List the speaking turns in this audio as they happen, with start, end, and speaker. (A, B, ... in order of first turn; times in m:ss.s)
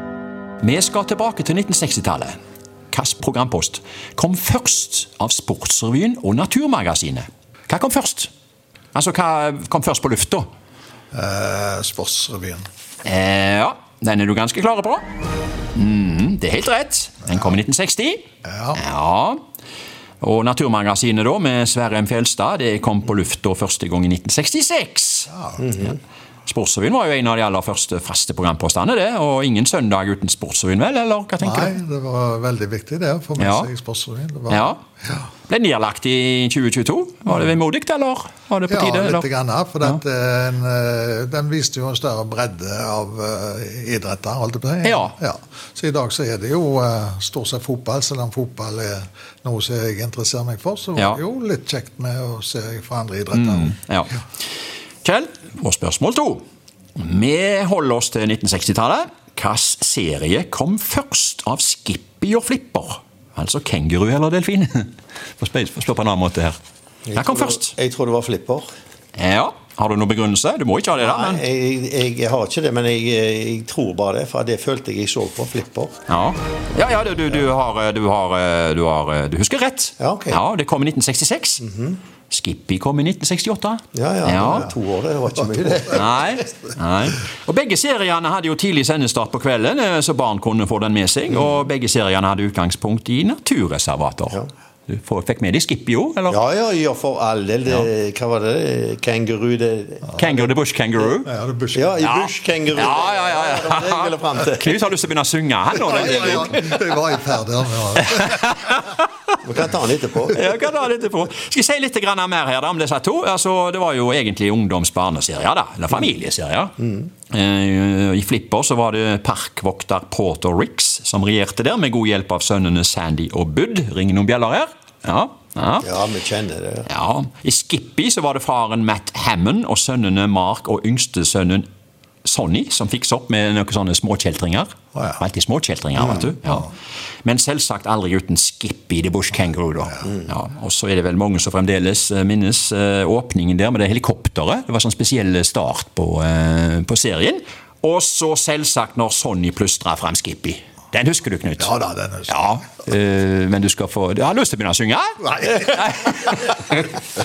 0:00.6-0:02.4 A
0:02.9-0:08.3 A
0:08.9-0:10.5 A
0:11.1-0:12.6 B
0:13.0-0:15.0 A
0:15.7-0:19.4 A
0:18.4-0:18.8 B
0:20.2-0:25.3 A
0:25.3-0:25.7 B
0:26.5-0:31.8 A
0:31.4-0:35.3 B
0:33.4-0:33.7 A
0:34.5-0:34.8 A
0:35.5-0:39.3 A
0:37.3-0:37.5 B
0:38.7-0:53.7 B
0:44.8-0:45.1 A
0:53.3-0:54.1 A
0:55.0-0:56.4 A
0:57.0-1:06.6 A
1:07.1-1:08.7 C
1:07.2-1:07.7 A
1:09.2-1:11.4 A
1:11.0-1:15.9 C
1:16.1-1:21.6 A
1:20.0-1:20.4 C
1:21.6-1:22.0 C
1:22.3-1:24.7 A
1:23.9-1:26.1 C
1:25.4-1:26.0 B
1:25.9-1:36.4 A
1:36.3-1:40.4 C
1:40.1-1:41.3 A
1:41.2-1:42.0 B
1:41.7-1:44.7 C
1:42.0-1:46.8 A
1:45.8-1:48.5 B
1:48.1-1:49.3 A
1:49.4-1:50.4 C
1:50.3-1:56.8 A
1:57.3-2:05.9 A
2:05.8-2:06.9 C
2:06.8-2:11.6 A
2:12.2-2:16.7 A
2:14.9-2:15.2 B
2:17.2-2:31.7 A
2:31.6-2:32.4 B
2:32.3-2:37.0 A
2:35.2-2:36.3 B